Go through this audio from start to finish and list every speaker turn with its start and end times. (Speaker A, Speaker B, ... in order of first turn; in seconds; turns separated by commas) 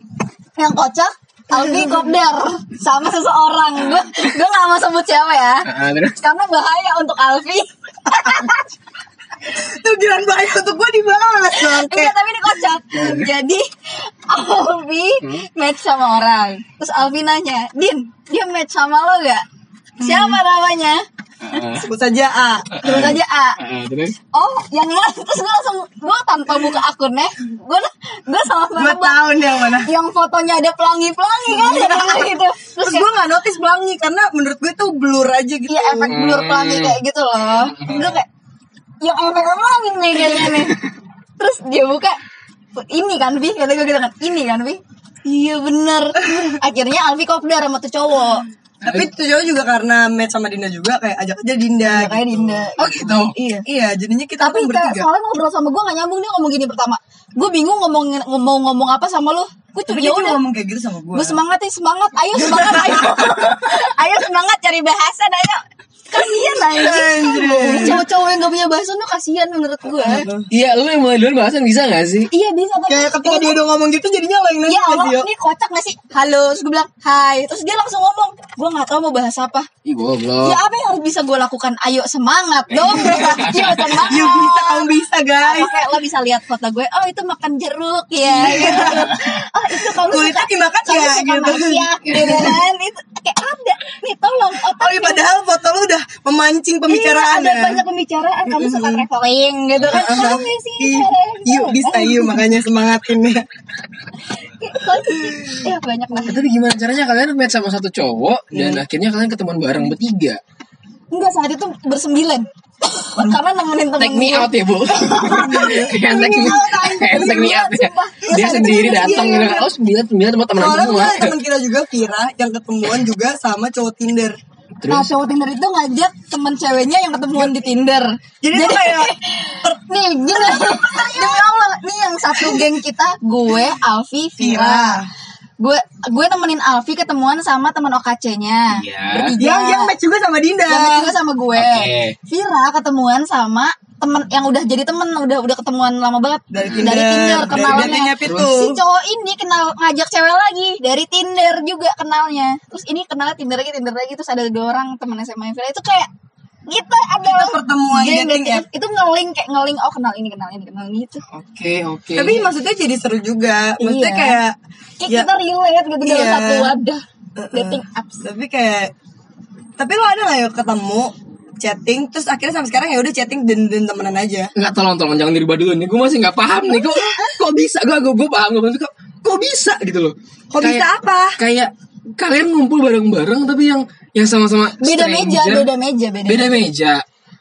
Speaker A: 0.6-8.7, Speaker B: 1.5-2.1, Speaker C: 4.0-4.3, Speaker C: 5.7-6.2, Speaker B: 8.1-8.4, Speaker B: 9.5-12.2, Speaker A: 11.6-19.5, Speaker C: 12.9-13.3, Speaker C: 15.2-15.5, Speaker B: 20.0-20.4, Speaker A: 20.0-21.6, Speaker C: 21.4-21.9, Speaker B: 21.8-22.8, Speaker C: 22.8-24.2, Speaker A: 22.8-23.6, Speaker A: 24.3-33.1, Speaker B: 28.8-29.9, Speaker B: 31.5-32.3, Speaker B: 32.8-36.1, Speaker A: 35.7-38.3, Speaker C: 36.1-37.0, Speaker C: 37.6-38.2, Speaker A: 39.0-40.8, Speaker C: 40.2-40.8, Speaker A: 41.4-42.2, Speaker A: 42.8-48.5, Speaker C: 48.8-49.1, Speaker B: 48.9-52.7, Speaker A: 51.9-53.7, Speaker C: 52.8-53.4, Speaker B: 53.7-55.1, Speaker A: 54.4-60.4, Speaker B: 59.9-61.4, Speaker A: 61.1-70.3, Speaker B: 62.4-63.3, Speaker B: 66.7-68.0, Speaker B: 70.0-70.5, Speaker C: 70.5-72.3, Speaker A: 72.3-73.6, Speaker B: 72.9-75.3, Speaker A: 74.7-79.7, Speaker C: 79.8-80.6, Speaker A: 80.4-95.2, Speaker C: 82.8-84.2, Speaker B: 82.9-83.5, Speaker B: 84.1-85.7, Speaker B: 88.3-89.1, Speaker B: 89.8-92.6, Speaker C: 92.1-92.5, Speaker B: 94.8-97.8, Speaker A: 96.9-102.4, Speaker B: 98.5-99.0, Speaker C: 99.8-100.2, Speaker B: 99.9-103.4, Speaker A: 104.2-106.5, Speaker B: 105.2-105.6, Speaker C: 106.2-110.4, Speaker B: 108.5-108.8, Speaker A: 111.1-119.6, Speaker C: 114.0-121.3, Speaker B: 115.4-116.0, Speaker B: 118.3-119.7, Speaker B: 120.6-124.4, Speaker C: 124.8-125.1, Speaker A: 124.9-135.0, Speaker B: 128.4-129.1, Speaker B: 129.6-131.5, Speaker B: 132.3-132.7, Speaker B: 134.4-135.1, Speaker A: 135.6-139.9, Speaker C: 138.7-139.3, Speaker B: 139.4-141.1, Speaker A: 140.7-156.1, Speaker C: 141.6-142.2, Speaker B: 146.5-148.8, Speaker C: 146.6-148.5, Speaker A: 156.7-161.2, Speaker B: 157.2-158.7, Speaker C: 161.3-162.5, Speaker B: 162.2-164.6, Speaker A: 163.8-164.4, Speaker A: 165.0-168.2, Speaker B: 166.0-166.7, Speaker B: 167.4-168.9, Speaker B: 169.8-174.5, Speaker C: 174.6-185.7, Speaker B: 180.5-181.4, Speaker A: 184.8-186.6, Speaker C: 186.3-187.0